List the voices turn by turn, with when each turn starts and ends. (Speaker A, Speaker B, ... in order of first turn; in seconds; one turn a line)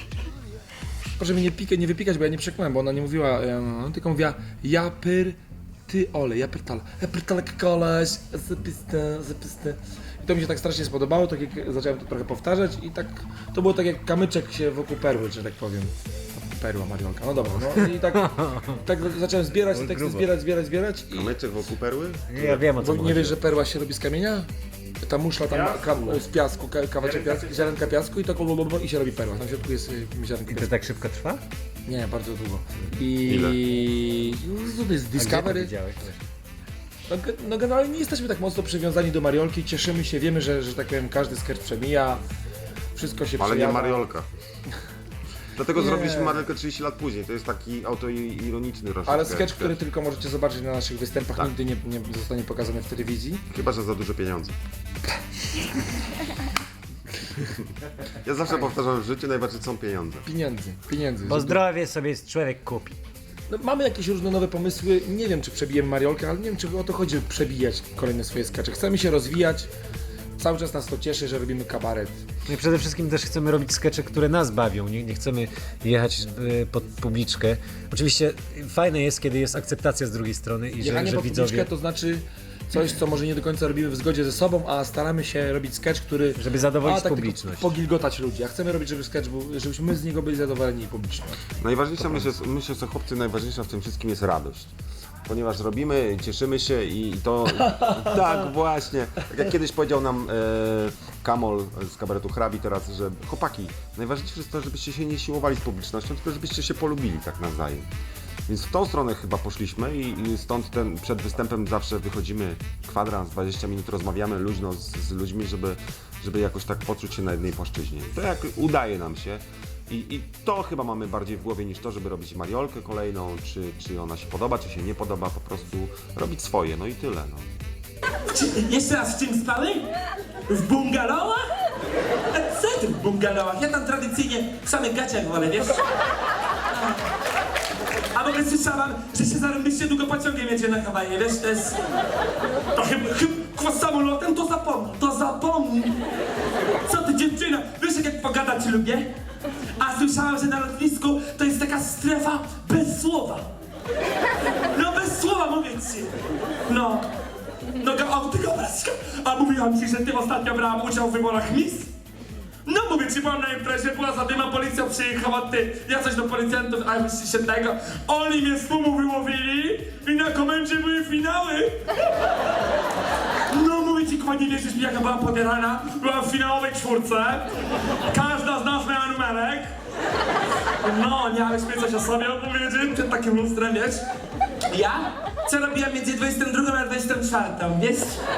Speaker A: 1.2-21.3
Speaker B: 18.3-18.7
Speaker B: 19.8-20.2
Speaker C: 21.1-22.6
Speaker B: 22.3-23.4
Speaker A: 22.8-24.5
Speaker A: 25.0-30.7
Speaker B: 30.5-31.4
Speaker A: 31.9-35.7
Speaker C: 33.3-33.6
Speaker B: 35.1-36.2
Speaker A: 37.1-42.2
Speaker A: 42.9-44.0
Speaker C: 43.4-44.3
Speaker C: 45.5-49.8
Speaker A: 45.7-46.5
Speaker A: 49.0-53.4
Speaker C: 53.5-54.5
Speaker C: 58.2-60.3
Speaker A: 60.2-61.6
Speaker B: 61.2-63.0
Speaker A: 63.5-69.7
Speaker A: 70.4-72.2
Speaker B: 72.5-81.7
Speaker A: 80.8-91.4
Speaker B: 86.3-87.7
Speaker C: 91.6-94.7
Speaker C: 95.2-107.8
Speaker C: 108.5-127.5
Speaker D: 128.3-129.8
Speaker D: 130.5-131.4
Speaker D: 132.3-135.8
Speaker D: 136.7-137.0
Speaker D: 138.1-141.8
Speaker D: 142.8-146.0
Speaker D: 146.8-149.1
Speaker D: 149.8-153.5
Speaker D: 154.7-156.1
Speaker D: 156.7-157.1
Speaker D: 157.8-161.9
Speaker D: 162.7-171.7
Speaker D: 173.5-177.4
Speaker D: 178.1-179.7
Speaker D: 180.8-184.0
Speaker D: 184.7-188.2